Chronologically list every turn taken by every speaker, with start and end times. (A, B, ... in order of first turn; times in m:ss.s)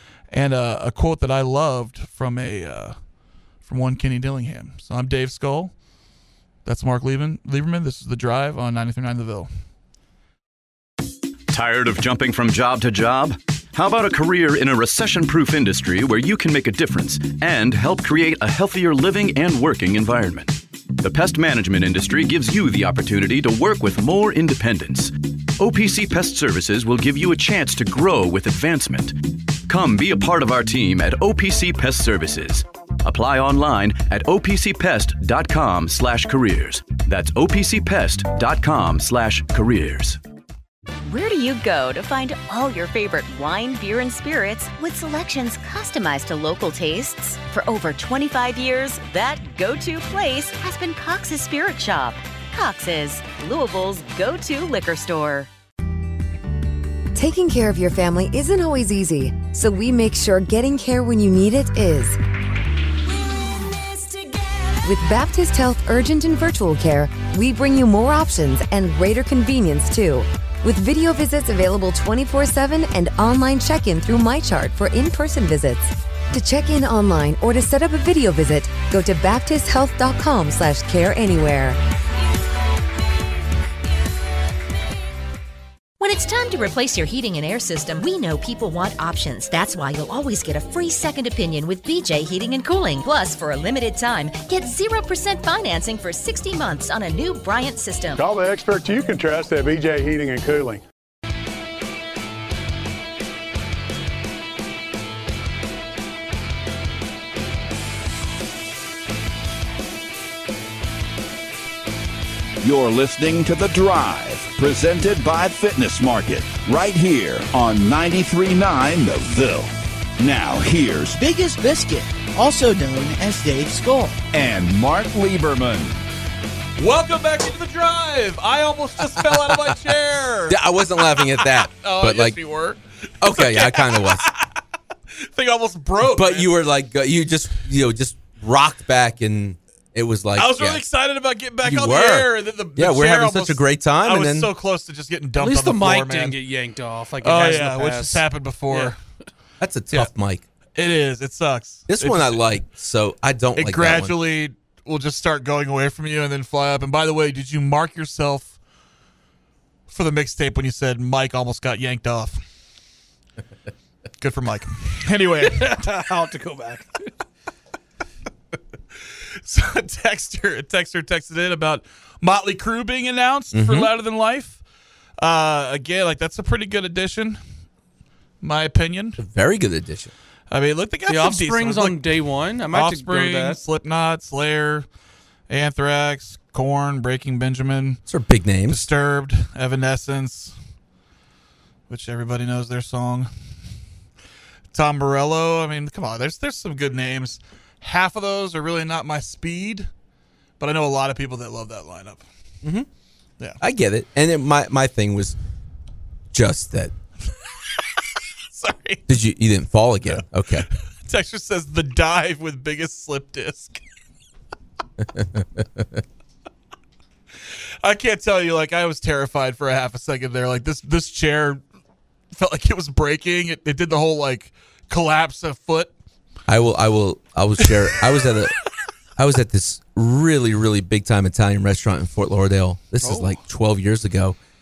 0:00.3-0:03.0 A
0:03.6-0:05.7 A
0:06.6-0:09.5 A
0:11.5-0:29.2 B
0:29.7-0:40.2 B
0:41.1-0:55.5 C
0:57.2-1:02.2 D
1:04.8-1:21.8 D
1:26.0-1:38.2 E
1:38.2-1:40.8 F
1:52.6-2:01.2 G
2:01.2-2:04.2 H
2:04.3-2:06.0 G
2:06.8-2:14.5 A
2:09.1-2:09.8 I
2:10.5-2:12.4 I
2:13.2-2:14.3 I
2:15.2-2:16.5 A
2:16.0-2:20.8 I
2:20.4-2:26.4 A
2:21.6-2:24.5 I
2:25.4-2:29.0 J
2:27.2-2:29.0 A
2:29.6-2:30.4 I
2:30.8-2:32.4 A
2:31.9-2:34.2 I
2:33.6-2:38.6 A
2:39.9-2:42.4 A
2:44.2-2:45.8 A
2:45.4-2:47.0 J
2:49.4-2:54.6 A
2:53.5-2:53.9 I
2:55.2-2:57.4 A
2:58.4-2:59.2 A
2:59.2-3:00.1 I
3:00.5-3:02.0 A
3:01.1-3:03.6 J
3:02.7-3:04.9 A
3:05.5-3:08.0 A
3:08.1-3:08.8 I
3:08.7-3:10.5 A
3:11.9-3:13.3 A
3:14.7-3:19.9 A
3:20.6-3:22.2 A
3:23.6-3:25.4 I
3:26.3-3:26.9 I
3:28.5-3:29.1 A
3:29.1-3:30.7 I
3:30.1-3:33.8 A
3:35.2-3:35.9 I
3:37.8-3:41.6 A
3:42.3-3:45.9 A
3:46.5-3:48.5 I
3:49.2-3:54.4 I
3:53.0-3:53.4 A